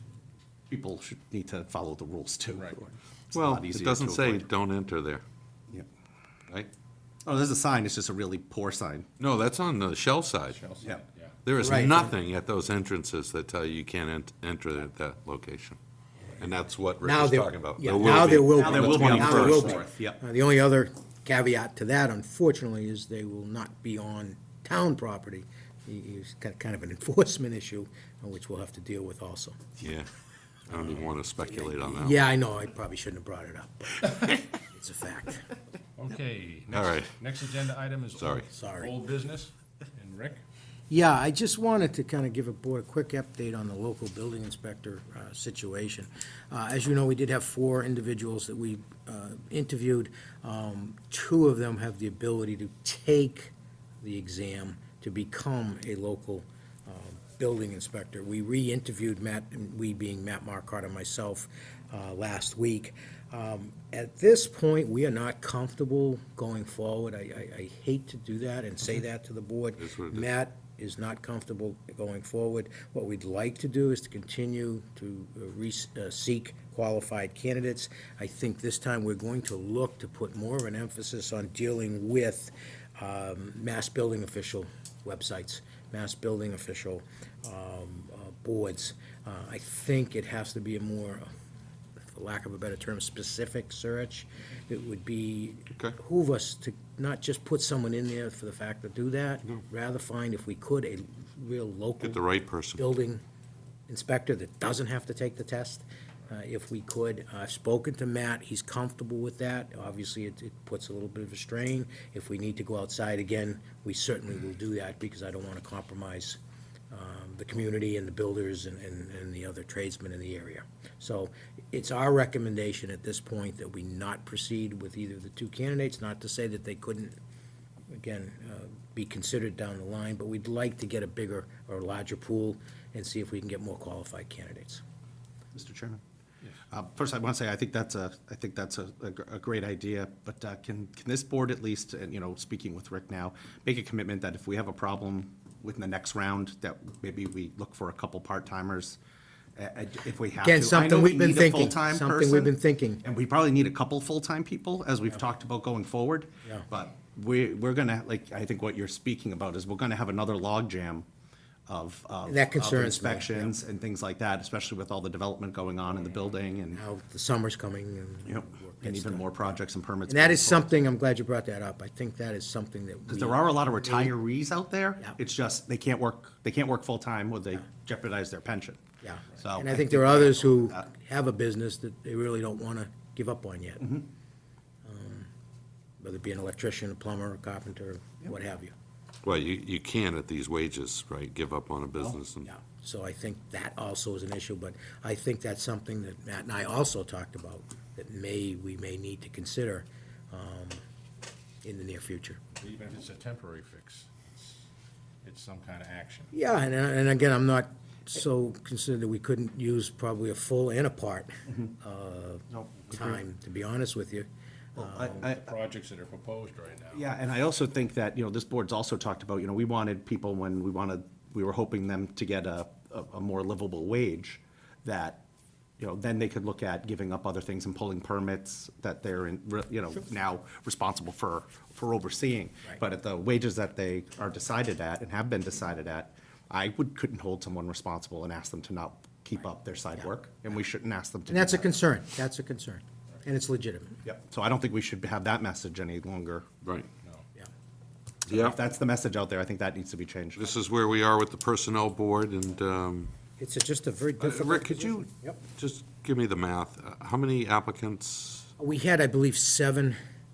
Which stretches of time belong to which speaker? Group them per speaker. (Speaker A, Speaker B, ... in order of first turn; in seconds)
Speaker A: 0.7-4.5, 7.2-9.1, 18.3-20.2, 135.5-136.0, 136.7-149.0, 149.6-161.1, 161.7-166.8, 168.3-170.7, 173.1-178.8, 179.4-180.9, 212.5-213.2, 214.8-215.5, 216.9-225.2, 225.8-241.8, 244.1-246.5, 248.3-250.5
Speaker B: 2.5-2.8, 10.5-11.3, 36.0-40.4, 202.6-204.6, 205.2-206.3, 215.2-217.0
Speaker C: 3.3-5.2, 9.2-10.6, 11.4-15.8, 16.4-19.8, 29.8-30.1, 30.7-32.2, 36.7-37.1, 38.2-38.5, 69.8-70.3, 102.0-102.8, 189.2-192.5, 246.6-246.9, 248.3-248.6, 250.4-253.1, 254.2-258.5
Speaker D: 11.6-12.1, 17.0-29.6, 31.8-35.5, 38.5-38.9, 40.9-91.3, 92.1-102.2, 102.8-103.2, 103.9-116.4, 116.9-127.2, 127.9-134.8, 150.4-153.0, 162.3-163.6, 166.7-169.3, 170.1-174.1, 179.0-184.0, 184.8-185.3, 186.0-188.7, 192.4-200.8, 201.6-202.4, 206.3-215.2, 241.3-244.0, 253.4-255.4, 258.6-260.0